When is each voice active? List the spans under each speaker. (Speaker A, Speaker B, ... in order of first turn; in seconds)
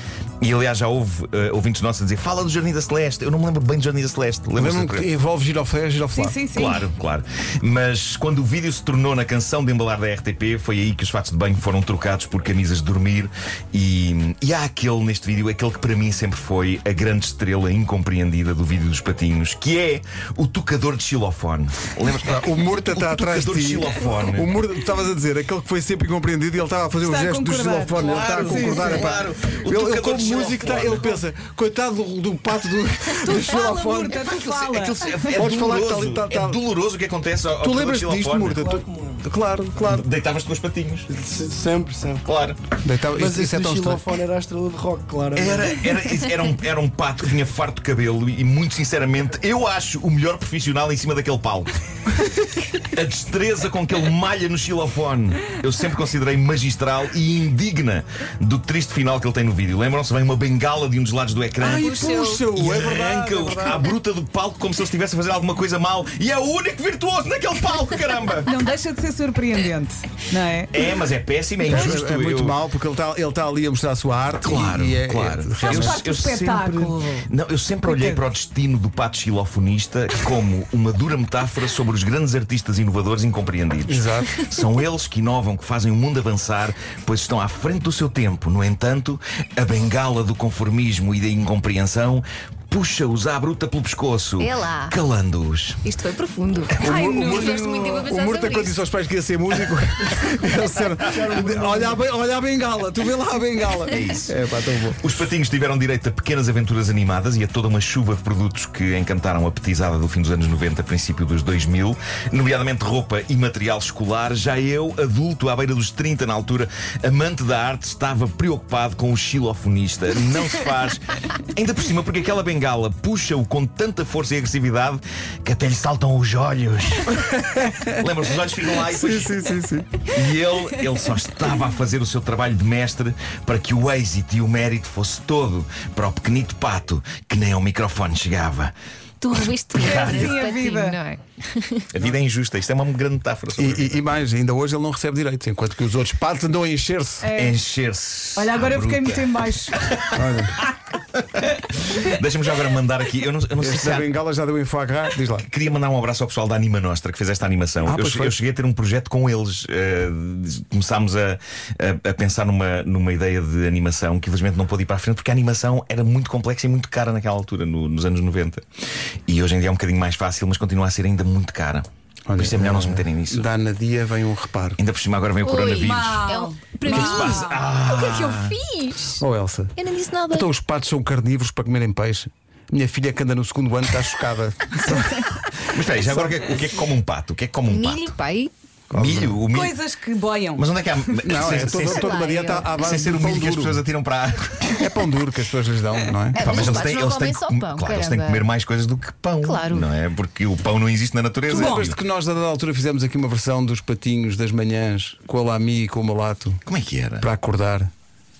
Speaker A: 0.4-5.1, 6.5-24.6, 28.0-31.2, 34.1-38.8, 39.9-41.1, 42.2-42.6, 45.4-51.7, 52.8-68.5, 70.7-72.6, 74.3-95.8, 96.8-97.1, 103.9-104.3, 105.0-129.5, 130.1-138.7, 139.7-140.4, 141.9-144.1, 147.3-150.6, 151.2-154.1, 155.4-168.7, 169.3-173.5, 174.8-176.3, 176.9-178.6, 185.7-188.2, 188.9-189.8, 190.5-192.2, 192.8-194.9, 196.4-202.0, 206.7-207.3
Speaker B: 4.6-6.4, 22.2-34.2, 35.4-36.6, 37.6-40.0, 42.8-44.2, 61.6-63.8, 71.7-76.0, 83.9-84.4, 96.8-105.0, 127.4-127.9, 128.9-130.0, 143.6-147.3, 150.1-150.6, 153.6-155.5, 157.8-158.4, 172.3-174.8, 179.2-179.8, 180.3-185.4, 188.9-189.4, 191.2-193.8, 194.8-196.9, 201.5-206.6, 207.2-207.9
Speaker C: 6.2-6.9, 27.0-29.1, 33.2-35.3, 68.5-70.7, 75.6-77.3, 77.8-78.2, 96.9-97.6, 139.8-141.0, 147.2-147.6, 148.4-149.8, 175.4-177.6, 189.5-191.1, 201.5-201.9
Speaker D: 41.1-42.2, 43.2-45.9, 101.1-102.0
Speaker E: 61.7-62.5, 94.4-95.0, 95.8-98.8, 139.2-141.9, 176.3-179.2, 179.8-180.5, 187.7-188.5, 191.7-192.9, 196.3-198.4, 199.4-199.9